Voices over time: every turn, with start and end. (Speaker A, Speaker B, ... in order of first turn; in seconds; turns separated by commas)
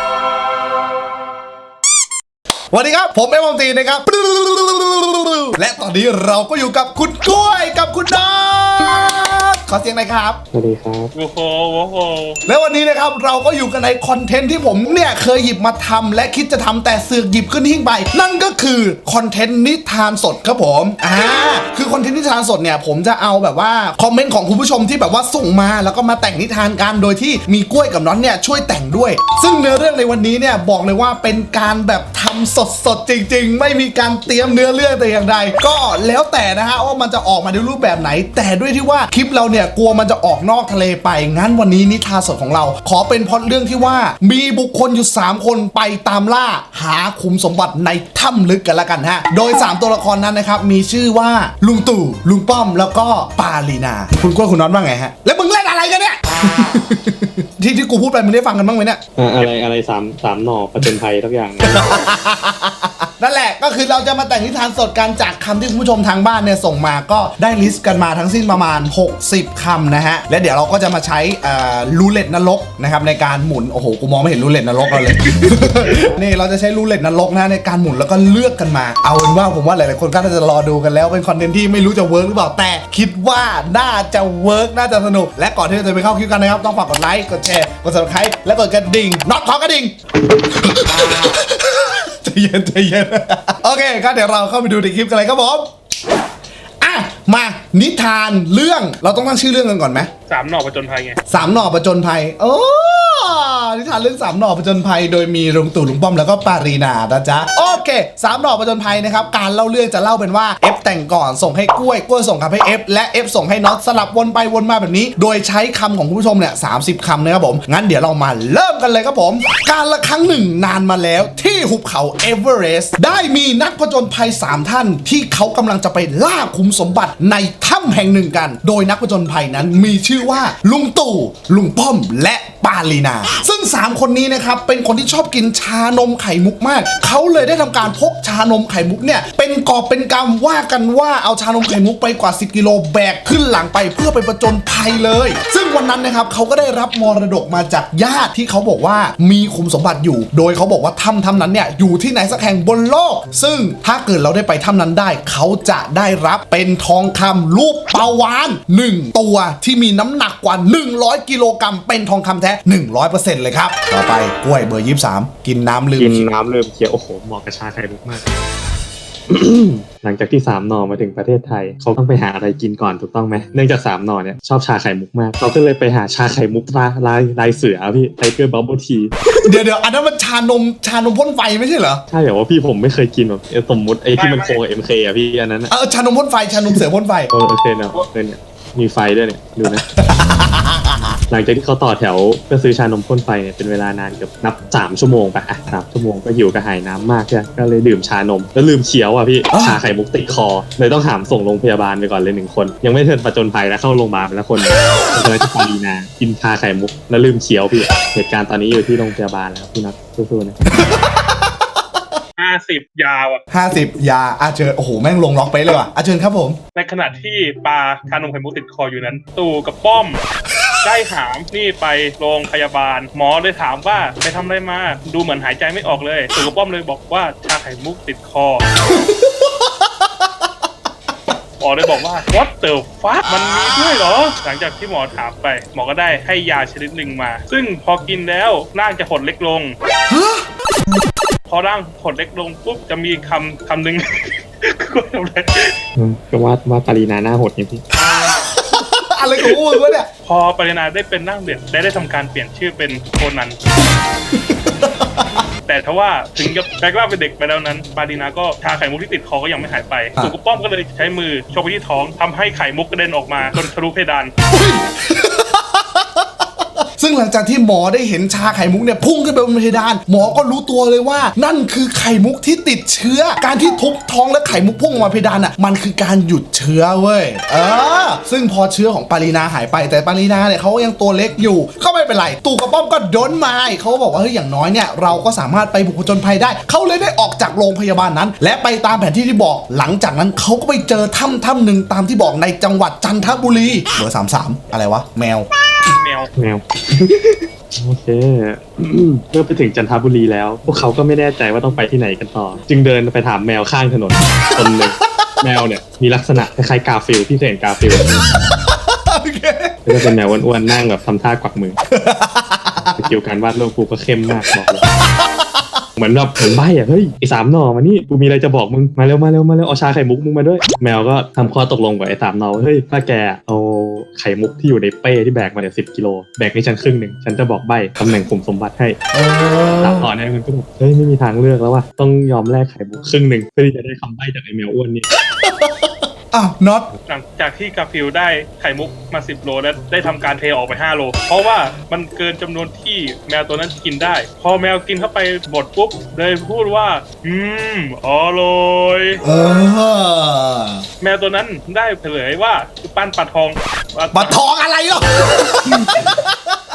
Speaker A: 2.7-10.4, Speaker B: 10.5-11.1, Speaker C: 11.1-12.4, Speaker A: 12.4-59.0, Speaker B: 59.1-61.8, Speaker A: 61.6-95.7, Speaker A: 96.8-100.1, Speaker C: 100.3-101.2, Speaker A: 101.3-166.3, Speaker B: 166.0-168.3, Speaker B: 169.3-179.1, Speaker A: 179.4-182.0, Speaker B: 182.1-185.7, Speaker C: 184.2-184.6, Speaker A: 185.7-187.3, Speaker B: 186.6-189.8, Speaker A: 189.7-191.2, Speaker B: 191.3-210.6, Speaker A: 199.5-199.8, Speaker A: 210.7-211.5, Speaker C: 212.4-213.4, Speaker A: 213.5-216.6, Speaker C: 216.7-220.2, Speaker C: 220.8-228.6, Speaker A: 228.9-229.7, Speaker C: 231.6-239.8, Speaker A: 240.1-240.4, Speaker C: 241.5-245.8, Speaker B: 245.9-247.8, Speaker A: 248.2-250.1, Speaker C: 250.2-253.6, Speaker A: 254.3-255.4, Speaker C: 255.7-264.3, Speaker A: 264.5-266.2, Speaker A: 267.0-295.5, Speaker C: 295.9-296.3, Speaker B: 296.4-308.2, Speaker A: 304.3-305.3, Speaker A: 308.6-309.8, Speaker B: 309.9-311.8, Speaker A: 311.9-313.0, Speaker B: 313.0-314.8, Speaker A: 314.8-315.8, Speaker B: 315.9-329.0, Speaker A: 329.1-330.1, Speaker B: 329.8-335.1, Speaker A: 335.4-336.9, Speaker C: 337.1-349.2, Speaker A: 349.2-350.8, Speaker C: 351.0-354.3, Speaker A: 354.1-356.4